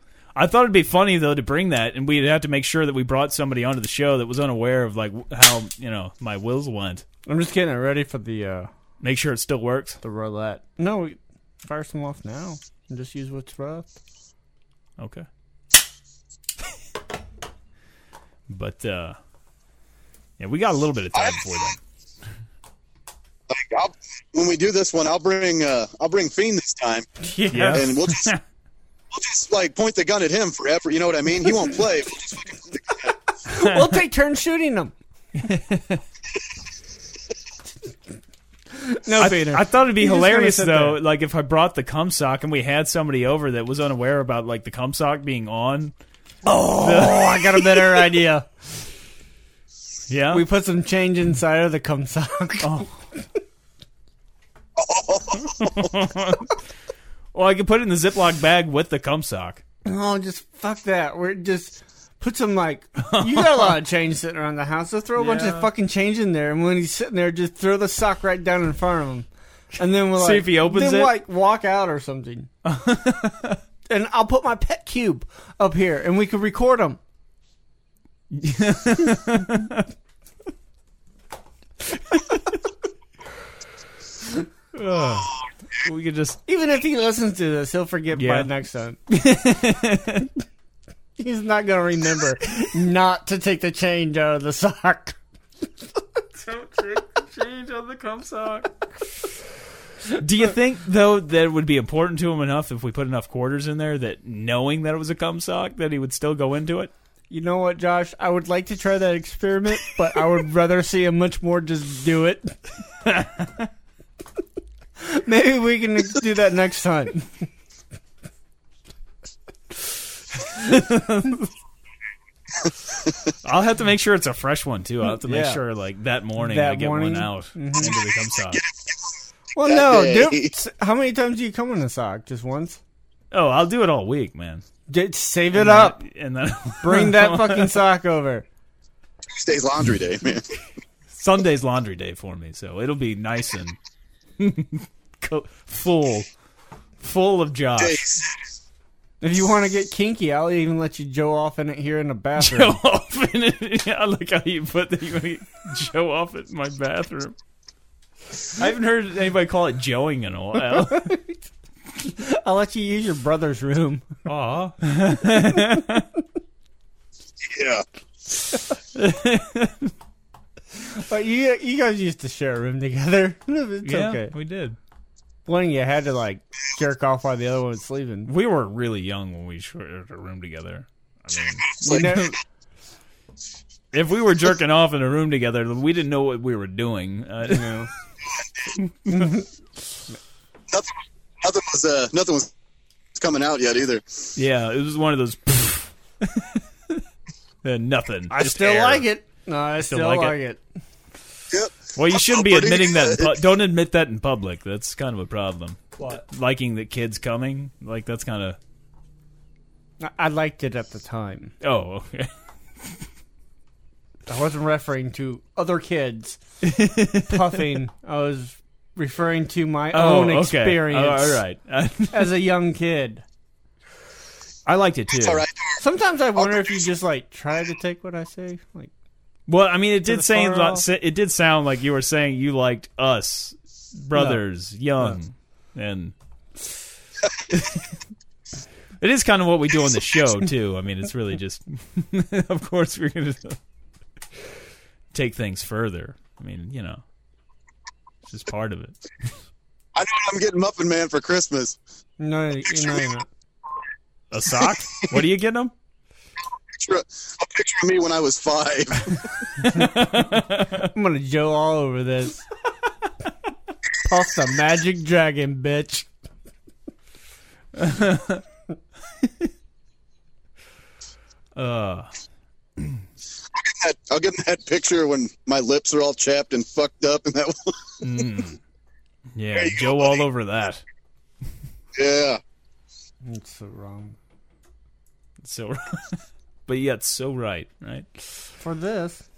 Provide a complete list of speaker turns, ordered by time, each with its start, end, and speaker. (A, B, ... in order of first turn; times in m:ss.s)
0:00.3-0:07.0 A
0:07.3-0:08.7 B
0:09.0-0:10.0 A
0:10.0-0:13.9 B
0:15.0-0:15.3 A
0:18.5-0:19.2 A
0:20.4-0:21.8 A
0:21.1-0:21.6 C
0:23.5-0:27.1 C
0:27.2-0:27.9 B
0:27.5-0:28.4 A
0:27.7-0:28.3 C
0:29.1-0:33.2 C
0:33.4-0:34.9 B
0:33.5-0:34.0 A
0:35.3-0:36.0 A
0:38.7-0:41.0 B
0:39.1-0:45.9 A
0:46.4-0:48.5 B
0:46.8-0:48.0 A
0:50.1-0:50.4 A
0:50.3-0:53.2 B
0:52.6-0:53.0 A
0:54.8-0:55.9 C
0:55.4-0:56.5 A
0:57.3-0:59.6 A
0:59.8-1:12.5 B
1:03.0-1:03.7 A
1:05.2-1:05.7 A
1:10.1-1:11.1 A
1:12.6-1:13.6 A
1:13.9-1:17.0 B
1:18.3-1:19.9 A
1:22.1-1:22.5 A
1:24.7-1:26.4 A
1:26.5-1:29.0 B
1:28.1-1:28.5 A
1:29.1-1:30.3 A
1:31.2-1:35.2 B
1:36.4-1:38.7 A
1:40.1-1:46.9 A
1:47.3-1:52.6 B
1:53.0-1:53.7 A
1:55.0-1:57.5 B
2:00.5-2:01.4 A
2:02.6-2:03.1 C
2:03.4-2:08.6 A
2:05.1-2:05.6 B
2:06.4-2:08.0 B
2:08.4-2:10.5 C
2:09.6-2:12.8 B
2:13.3-2:14.6 A
2:14.9-2:16.0 B
2:15.5-2:17.8 A
2:16.8-2:18.4 B
2:19.3-2:20.6 C
2:21.1-2:23.8 A
2:24.4-2:26.3 A
2:27.0-2:28.0 A
2:27.8-2:28.5 C
2:29.2-2:32.8 B
2:32.4-2:37.3 A
2:38.6-2:41.1 A
2:40.7-2:41.4 B
2:42.0-2:44.2 B
2:44.3-2:46.1 A
2:45.4-2:45.8 B
2:47.4-2:47.8 C
2:48.8-2:49.9 A
2:50.9-2:54.3 B
2:53.8-2:54.8 A
2:55.5-2:58.3 B
2:58.2-3:02.4 A
3:01.7-3:02.2 C
3:01.8-3:02.4 B
3:03.9-3:07.7 A
3:07.5-3:07.9 B
3:08.2-3:08.7 C
3:08.7-3:09.3 A
3:09.1-3:09.4 B
3:10.7-3:12.5 C
3:13.1-3:14.3 C
3:14.4-3:17.0 A
3:17.6-3:19.0 A
3:18.3-3:20.6 B
3:19.9-3:20.4 A
3:21.5-3:23.4 C
3:21.9-3:28.6 A
3:30.0-3:31.5 B
3:31.6-3:32.3 A
3:34.3-3:36.4 B
3:36.6-3:37.6 A
3:37.3-3:41.4 B
3:39.9-3:42.3 A
3:42.1-3:43.2 B
3:44.6-3:45.4 A
3:45.1-3:45.8 C
3:45.8-3:48.9 B
3:46.3-3:46.9 C
3:49.5-3:56.1 A
3:50.0-3:50.8 B
3:54.1-3:54.4 B
3:57.5-3:57.8 A
3:59.0-4:03.6 A
4:05.1-4:07.0 A
4:08.3-4:09.3 A
4:09.9-4:11.8 C
4:12.2-4:13.3 B
4:12.7-4:13.1 C
4:14.3-4:15.7 A
4:16.7-4:19.3 C
4:19.6-4:20.9 A
4:20.8-4:22.5 B
4:24.0-4:26.1 B
4:27.8-4:28.4 A
4:29.2-4:29.5 A
4:31.6-4:32.1 A
4:33.5-4:37.8 C
4:38.0-4:38.6 A
4:39.3-4:40.8 A
4:39.5-4:40.2 C
4:41.9-4:42.4 C
4:43.2-4:44.2 B
4:45.4-4:48.3 A
4:48.6-4:49.3 B